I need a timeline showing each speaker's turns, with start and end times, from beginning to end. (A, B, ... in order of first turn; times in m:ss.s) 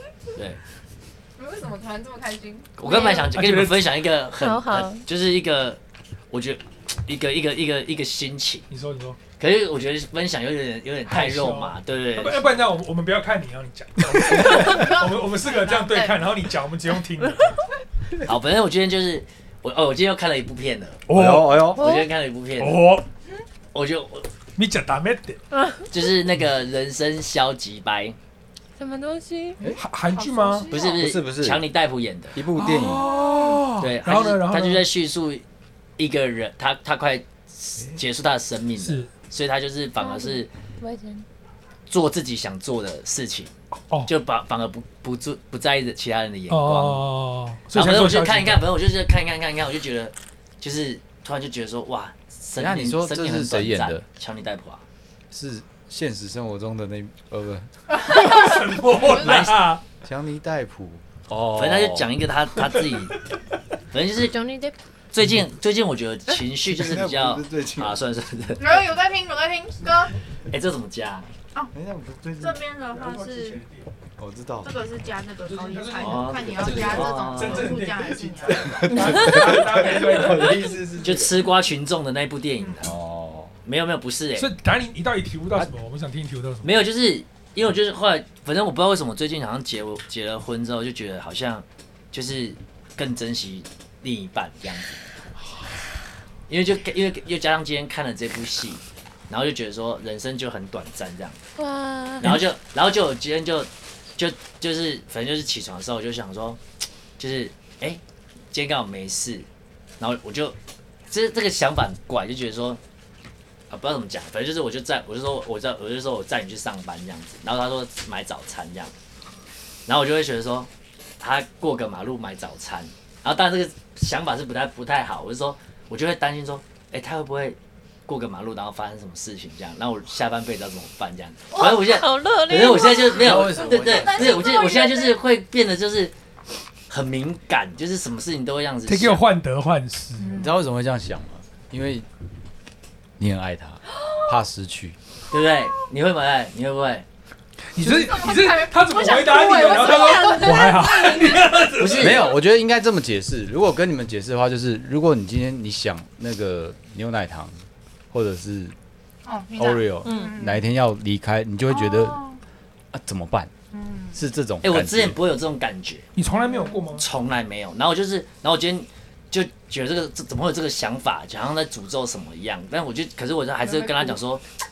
0:01.4-0:02.7 A
0:02.8-0:05.8 B
0:02.8-0:03.3 C
0:03.3-0:03.9 D
0:04.4-0:05.0 C
0:06.3-0:08.6 B
0:08.7-0:09.2 D
0:09.4-0:12.5 B
0:11.0-0:17.6 D
0:14.4-0:16.2 A
0:18.2-0:21.0 B
0:21.1-0:21.7 D
0:21.1-0:21.8 E
0:21.7-0:22.1 C
0:21.8-0:22.8 B
0:22.6-0:23.1 D
0:23.7-0:24.3 B
0:24.6-0:25.4 D
0:25.5-0:25.8 C
0:25.9-0:28.2 B
0:28.8-0:29.6 C
0:29.7-0:30.7 D
0:30.1-0:31.0 A
0:30.7-0:32.4 B
0:30.9-0:31.7 E
0:32.3-0:33.1 E
0:32.5-0:34.9 D
0:33.0-0:33.6 A
0:33.8-0:35.4 B
0:36.0-0:40.5 B
0:38.8-0:39.1 D
0:40.0-0:41.2 C
0:41.9-0:43.5 B
0:44.0-0:47.1 B
0:46.5-0:48.7 D
0:47.7-0:54.8 B
0:52.5-0:54.0 E
0:55.3-0:57.7 E
0:58.0-0:59.8 D
0:59.1-0:59.8 B
1:00.0-1:02.1 E
1:01.5-1:03.2 B
1:03.9-1:04.4 B
1:04.1-1:04.8 C
1:05.1-1:08.8 B
1:06.6-1:08.0 E
1:08.6-1:10.1 A
1:10.5-1:11.3 B
1:11.7-1:12.6 E
1:12.4-1:13.6 A
1:12.9-1:13.9 D
1:14.2-1:14.8 E
1:14.6-1:18.9 A
1:15.4-1:20.8 D
1:16.0-1:17.8 B
1:16.5-1:17.1 E
1:18.4-1:21.4 E
1:18.9-1:19.3 C
1:21.0-1:23.0 B
1:22.8-1:23.6 E
1:23.6-1:24.5 B
1:24.4-1:26.8 D
1:26.6-1:35.0 B
1:36.5-1:41.4 B
1:41.6-1:42.4 C
1:42.2-1:46.6 B
1:47.2-1:48.0 B
1:48.5-1:49.5 B
1:50.0-1:50.6 B
1:51.1-1:52.8 B
1:53.7-1:58.9 B
1:59.9-2:00.7 B
2:01.2-2:16.1 B
2:11.5-2:13.5 C
2:13.1-2:14.6 E
2:13.6-2:15.2 A
2:16.9-2:19.2 B
2:18.8-2:20.4 D
2:20.2-2:20.6 A
2:20.3-2:22.0 E
2:23.2-2:25.0 E
2:25.3-2:27.0 B
2:27.7-2:32.3 D
2:27.8-2:31.4 A
2:30.3-2:30.8 C
2:31.8-2:32.3 B
2:32.0-2:37.6 E
2:38.1-2:38.7 E
2:39.2-2:40.6 A
2:39.6-2:42.2 E
2:40.0-2:40.3 C
2:41.7-2:42.4 A
2:42.9-2:43.5 E
2:43.7-2:44.2 A
2:44.1-2:45.2 E
2:44.6-2:46.1 B
2:46.1-2:47.0 D
2:47.0-2:54.4 B
2:53.8-2:54.2 A